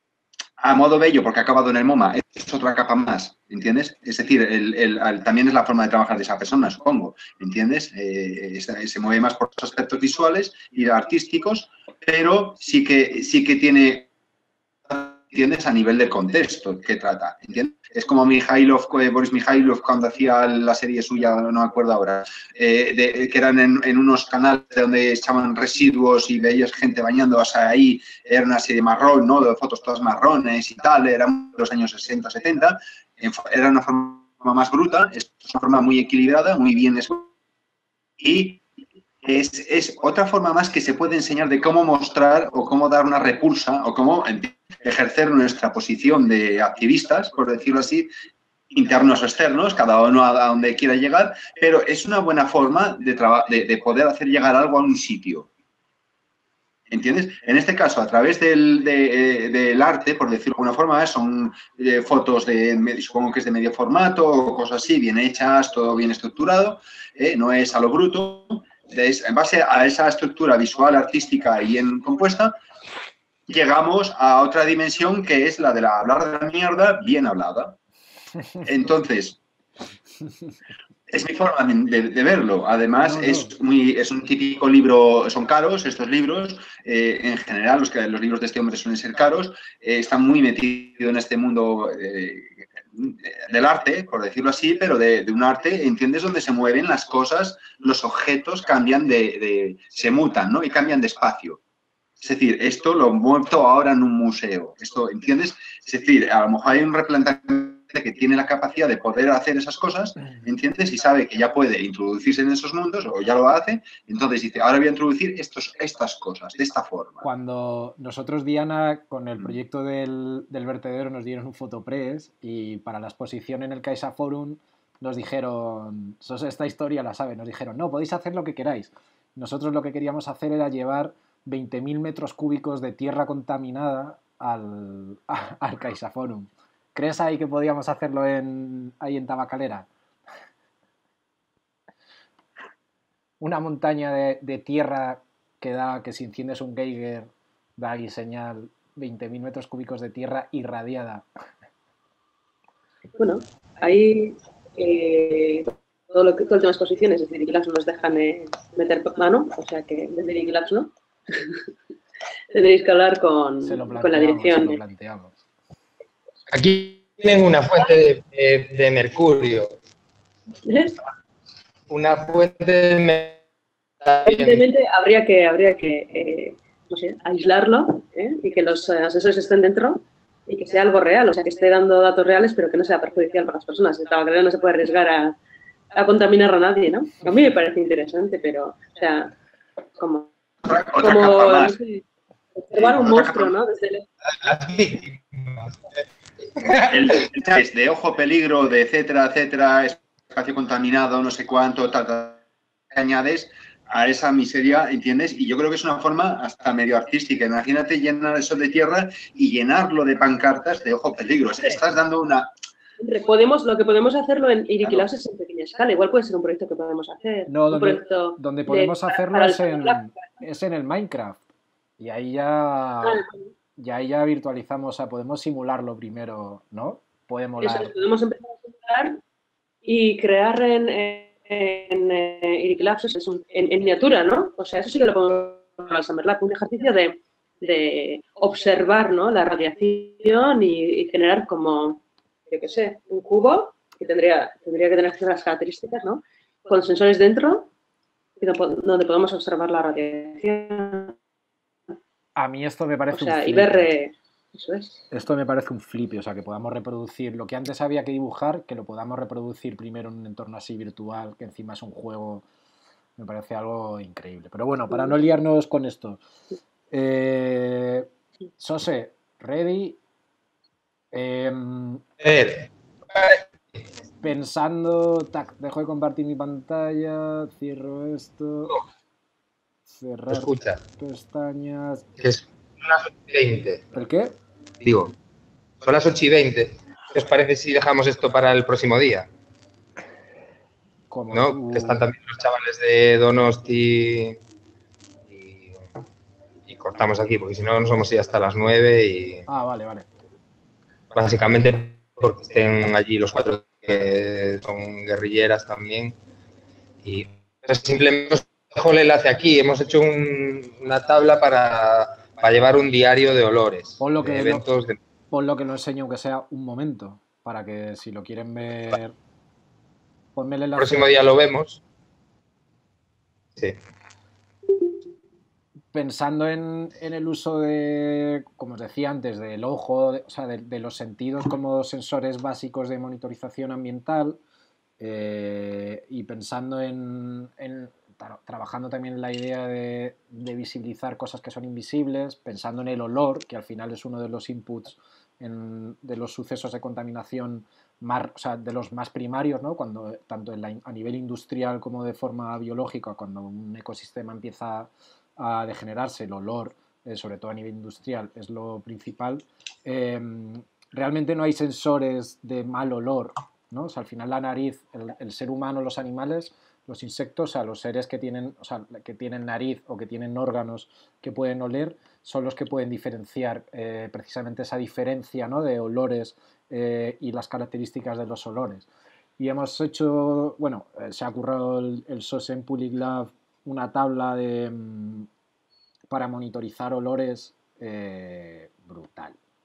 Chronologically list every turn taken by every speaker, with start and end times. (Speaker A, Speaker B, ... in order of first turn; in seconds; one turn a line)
Speaker A: 0.6-14.1
Speaker A: 14.9-37.3
Speaker A: 38.2-38.6
Speaker A: 39.2-48.1
Speaker A: 48.7-55.5
Speaker A: 56.9-72.6
Speaker A: 73.5-77.8
Speaker A: 78.6-79.4
Speaker A: 81.1-101.6
Speaker B: 83.0-83.5
Speaker A: 102.2-117.2
Speaker B: 117.2-139.9
Speaker B: 143.4-151.3
Speaker C: 153.2-161.6
Speaker C: 162.5-164.8
Speaker B: 163.6-165.3
Speaker D: 166.5-169.7
Speaker C: 170.6-171.0
Speaker D: 171.9-173.4
Speaker D: 174.0-174.6
Speaker C: 174.2-185.3
Speaker C: 185.9-189.3
Speaker C: 190.0-190.3
Speaker A: 190.7-191.8
Speaker C: 190.9-192.0
Speaker C: 192.6-194.1
Speaker A: 192.7-193.6
Speaker D: 194.3-195.8
Speaker D: 196.6-196.9
Speaker A: 196.9-212.5
Speaker C: 213.0-220.0
Speaker B: 217.5-221.4
Speaker B: 222.0-223.2
Speaker C: 223.0-223.5
Speaker B: 223.8-227.9
Speaker C: 227.6-229.2
Speaker C: 229.8-247.7
Speaker C: 248.4-251.2
Speaker B: 252.3-253.9
Speaker C: 253.1-255.0
Speaker B: 255.1-262.4
Speaker B: 263.2-266.2
Speaker B: 266.9-270.0
Speaker B: 271.1-272.0
Speaker D: 272.2-273.4
Speaker B: 274.2-278.8
Speaker B: 279.9-282.1
Speaker D: 280.3-280.8
Speaker D: 282.2-283.9
Speaker B: 283.9-284.4
Speaker D: 284.8-285.1
Speaker D: 285.8-289.3
Speaker B: 291.1-292.0
Speaker D: 291.3-294.4
Speaker D: 295.3-295.7
Speaker D: 296.7-299.4
Speaker B: 299.5-300.1
Speaker D: 301.1-306.1
Speaker D: 307.0-315.0
Speaker B: 314.0-314.7
Speaker B: 315.3-319.1
Speaker B: 320.3-321.2
Speaker D: 320.8-321.8
Speaker B: 325.9-334.4
Speaker B: 335.0-385.3
Speaker B: 386.1-389.4